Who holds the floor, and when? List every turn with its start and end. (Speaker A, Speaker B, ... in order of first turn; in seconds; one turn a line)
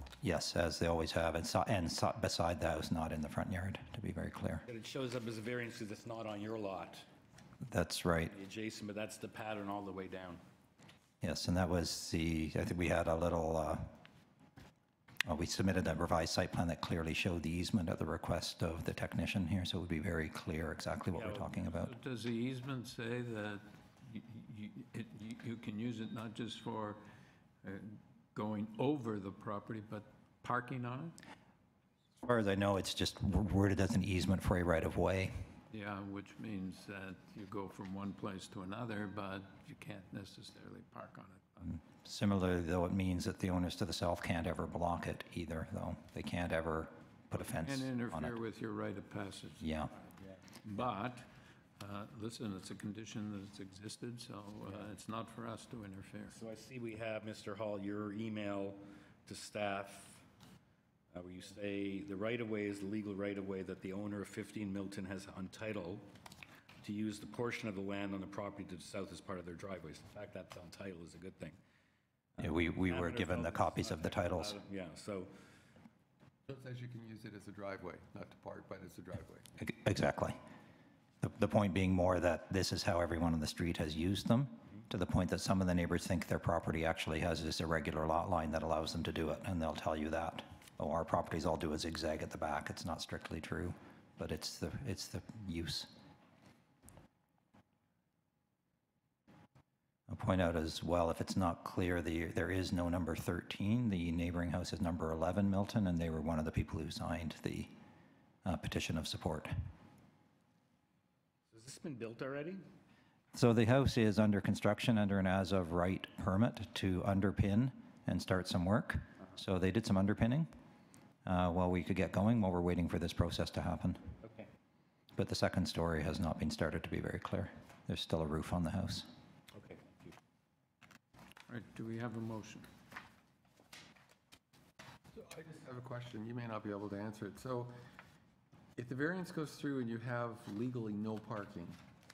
Speaker A: 0.2-4.6
Speaker B: 4.7-7.0
Speaker A: 7.7-8.3
Speaker B: 8.3-10.4
Speaker A: 11.2-13.9
Speaker A: 15.2-21.9
Speaker B: 21.1-21.5
Speaker C: 21.8-27.0
Speaker C: 27.6-31.2
Speaker A: 32.2-35.3
Speaker C: 35.7-41.7
Speaker A: 41.6-48.4
Speaker C: 47.4-49.6
Speaker A: 49.6-49.9
Speaker C: 50.6-56.3
Speaker B: 56.3-60.2
Speaker B: 61.1-66.1
Speaker B: 66.8-71.6
Speaker B: 72.3-75.3
Speaker A: 72.4-74.6
Speaker D: 76.5-79.4
Speaker A: 79.6-80.4
Speaker A: 81.2-95.9
Speaker A: 100.1-107.7
Speaker A: 108.4-109.5
Speaker B: 111.5-112.6
Speaker A: 113.3-120.5
Speaker A: 121.2-124.0
Speaker B: 124.2-124.5
Speaker A: 125.1-129.1
Speaker B: 129.5-130.1
Speaker C: 131.5-132.7
Speaker D: 135.2-137.7
Speaker D: 138.8-141.8